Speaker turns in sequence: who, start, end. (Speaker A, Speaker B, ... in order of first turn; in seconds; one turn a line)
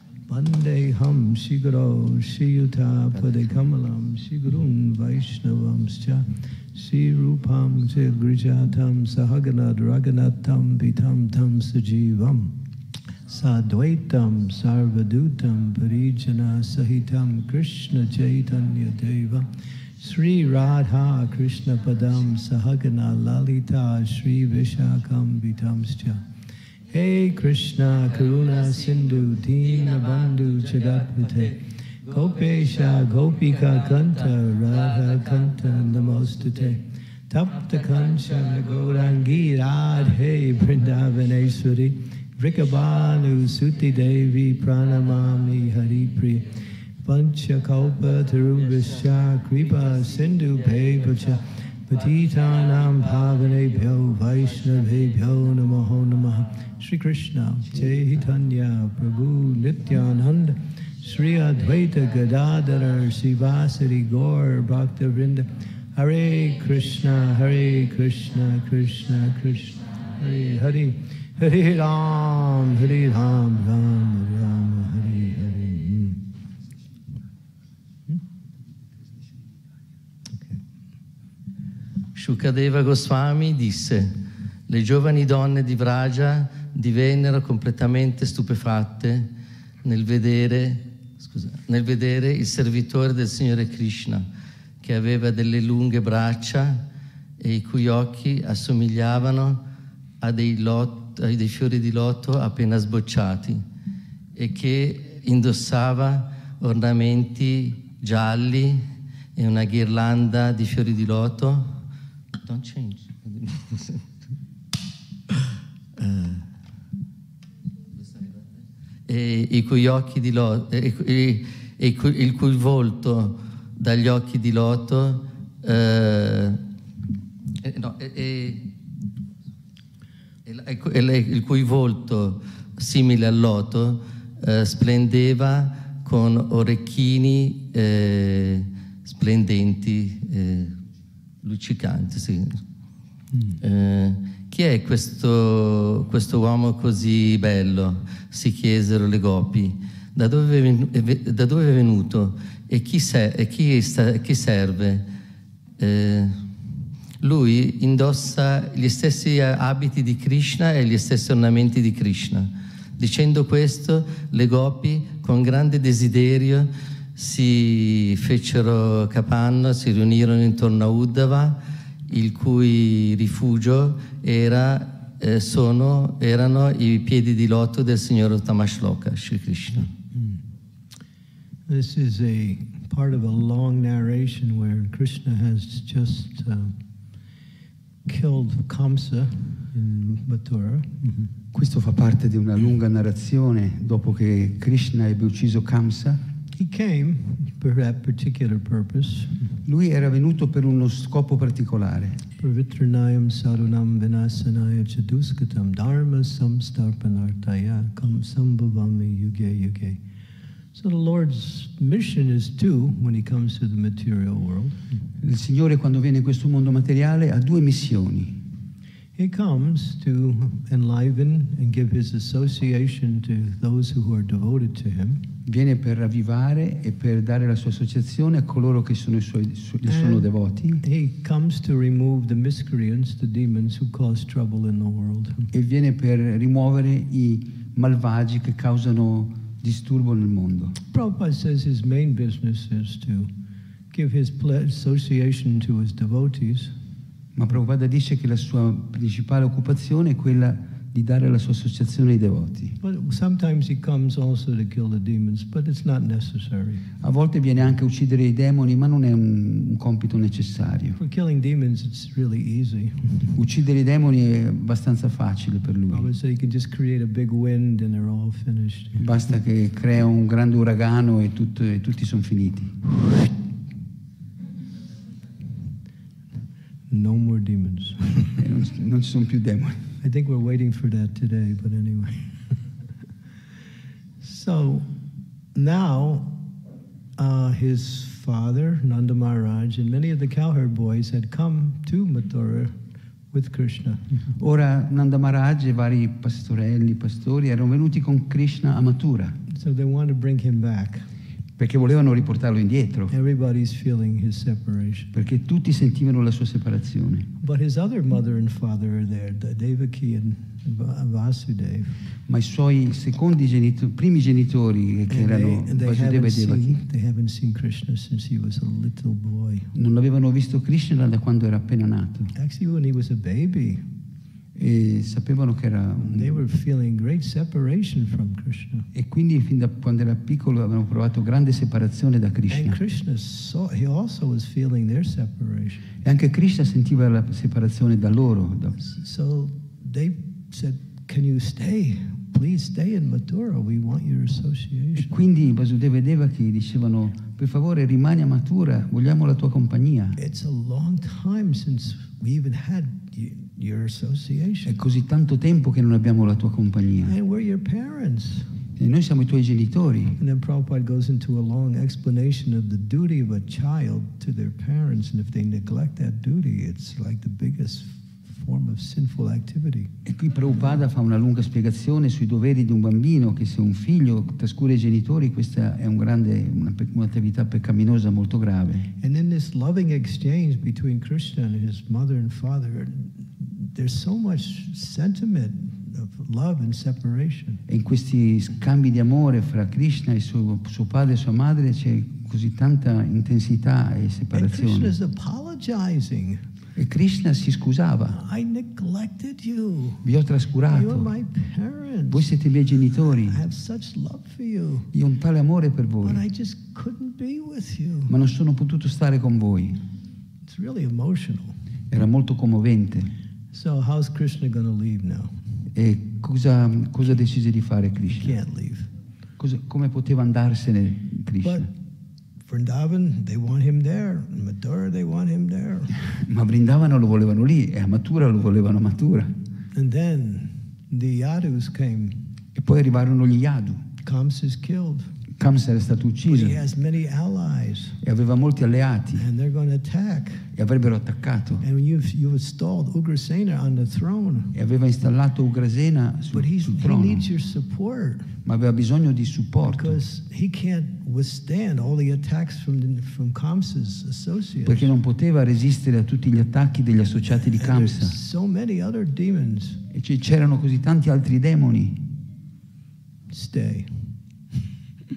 Speaker A: 0.3-12.6
Speaker A: 13.3-26.2
Speaker A: 26.9-76.2
Speaker B: 82.2-84.2
Speaker B: 84.7-89.3
Speaker B: 89.8-94.3
Speaker B: 94.8-96.8
Speaker B: 97.4-99.6
Speaker B: 100.2-103.6
Speaker B: 104.3-108.8
Speaker B: 109.4-111.8
Speaker B: 112.3-114.0
Speaker B: 116.0-116.4
Speaker B: 118.0-118.3
Speaker B: 119.1-126.6
Speaker B: 127.6-128.7
Speaker B: 130.4-140.8
Speaker B: 141.4-142.6
Speaker B: 143.6-155.0
Speaker B: 155.8-156.4
Speaker B: 157.2-179.9
Speaker A: 180.1-180.4
Speaker A: 181.7-186.8
Speaker A: 188.1-191.3
Speaker C: 191.5-196.2
Speaker A: 196.5-199.6
Speaker C: 199.6-202.2
Speaker A: 202.4-210.0
Speaker A: 210.7-215.0
Speaker C: 215.2-218.4
Speaker A: 219.2-225.3
Speaker C: 225.5-230.8
Speaker A: 229.8-235.5
Speaker C: 235.5-240.8
Speaker A: 240.9-243.3
Speaker A: 243.9-246.8
Speaker C: 247.3-252.8
Speaker A: 252.8-256.9
Speaker C: 257.0-261.0
Speaker A: 261.0-263.4
Speaker C: 263.4-266.1
Speaker A: 265.9-269.1
Speaker C: 269.0-272.9
Speaker A: 276.9-278.4
Speaker C: 278.4-279.9
Speaker A: 280.0-282.5
Speaker A: 284.2-284.9
Speaker A: 285.6-286.4
Speaker A: 287.2-292.8
Speaker A: 293.3-294.3
Speaker C: 294.4-299.4
Speaker A: 299.5-301.1
Speaker C: 301.6-303.1
Speaker A: 303.1-305.1
Speaker C: 305.1-307.3
Speaker A: 307.4-312.0
Speaker C: 312.3-316.8
Speaker A: 315.1-319.7
Speaker C: 319.7-322.3
Speaker A: 322.3-323.9
Speaker C: 324.6-326.4
Speaker A: 326.0-328.9
Speaker C: 328.9-332.8
Speaker A: 332.5-335.9
Speaker C: 336.0-338.8
Speaker A: 338.8-345.1
Speaker C: 345.0-350.2
Speaker A: 350.2-354.8
Speaker C: 354.6-357.2
Speaker A: 357.0-358.6
Speaker C: 358.8-360.2
Speaker A: 360.2-369.9
Speaker C: 370.1-378.9
Speaker A: 379.0-387.6
Speaker C: 387.7-394.9
Speaker A: 394.3-396.5
Speaker C: 396.8-398.2
Speaker A: 398.1-400.1
Speaker C: 400.0-401.1
Speaker A: 400.7-402.3
Speaker C: 402.1-403.4
Speaker A: 403.1-404.9
Speaker C: 404.9-406.2
Speaker A: 406.0-408.2
Speaker C: 408.1-409.8
Speaker A: 410.5-411.6
Speaker C: 411.9-413.1
Speaker A: 413.5-415.4
Speaker C: 415.7-418.4
Speaker A: 418.1-418.9
Speaker C: 419.4-421.7
Speaker A: 421.4-421.7
Speaker A: 422.5-426.1
Speaker C: 426.1-429.3
Speaker A: 429.7-432.3
Speaker C: 432.6-433.9
Speaker A: 434.0-435.2
Speaker C: 435.4-436.6
Speaker A: 436.3-438.0
Speaker C: 438.0-439.2
Speaker A: 439.1-440.5
Speaker C: 440.6-441.6
Speaker A: 441.6-444.6
Speaker C: 444.5-447.3
Speaker A: 446.3-448.4
Speaker C: 448.4-450.0
Speaker A: 449.6-454.9
Speaker C: 454.6-458.2
Speaker A: 457.5-459.8
Speaker C: 459.9-462.1
Speaker A: 463.3-464.2